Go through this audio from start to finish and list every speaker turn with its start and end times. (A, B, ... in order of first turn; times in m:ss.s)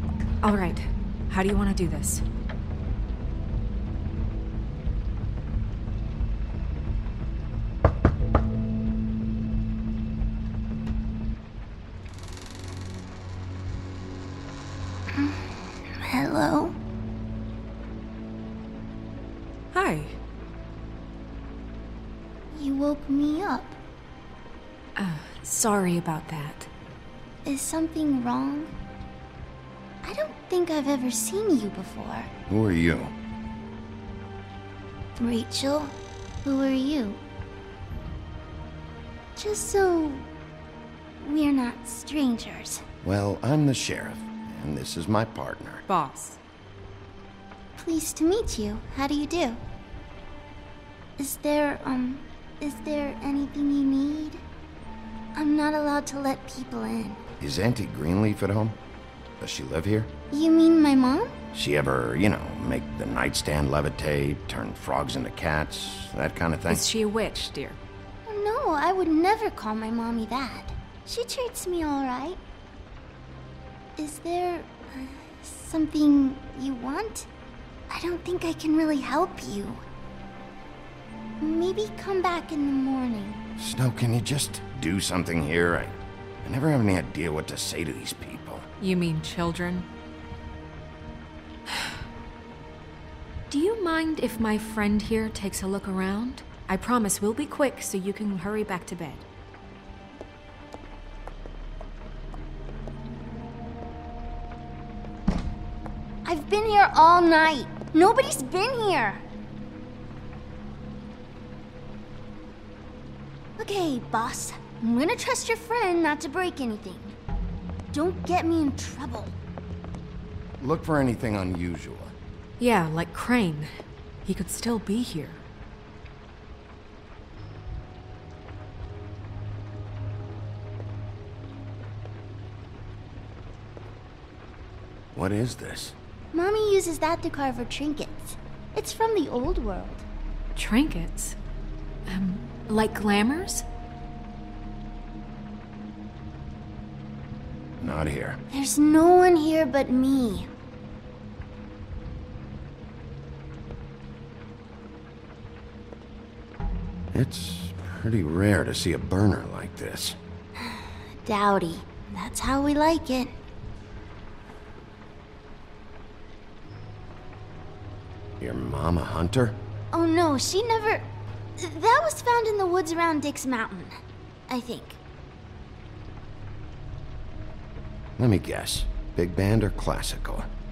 0:00.4-0:02.2 A
0:15.1-0:15.4 B
0:16.0-0:16.8 B
0:19.7-0:20.2 A
0:22.5-0:23.8 B
0:25.0-0:26.7 A
0:27.4-0:28.7 B
0:30.0-0:32.3 B
0:32.5-0:33.1 C
0:35.2-0:37.2 B
0:39.4-0:40.3 B
0:41.2-0:42.8 B
0:43.0-0:45.8 C
0:45.9-0:46.4 A
0:47.8-0:49.6 B
0:51.2-0:54.4 B
0:55.4-0:57.2 B
0:57.4-0:58.8 C
0:59.4-1:00.1 C
1:00.3-1:01.4 B
1:01.5-1:06.9 C
1:06.7-1:07.8 A
1:08.3-1:12.4 B
1:14.0-1:17.3 B
1:17.9-1:19.8 B
1:21.4-1:23.4 B
1:23.6-1:28.7 C
1:28.8-1:29.9 A
1:31.7-1:31.9 A
1:33.5-1:39.2 A
1:46.2-1:49.2 B
1:53.6-1:57.2 B
1:57.9-1:59.4 B
2:00.6-2:02.2 C
2:02.6-2:05.4 A
2:15.1-2:16.0 C
2:16.3-2:20.0 B
2:20.6-2:21.4 A
2:22.1-2:23.6 A
2:27.8-2:28.4 C
2:28.5-2:30.5 B
2:37.1-2:40.2 C
2:40.6-2:43.3 B
2:48.4-2:49.6 C
2:49.9-2:51.0 B
2:51.6-2:54.0 B
2:54.5-2:55.0 B
2:58.2-3:00.5 C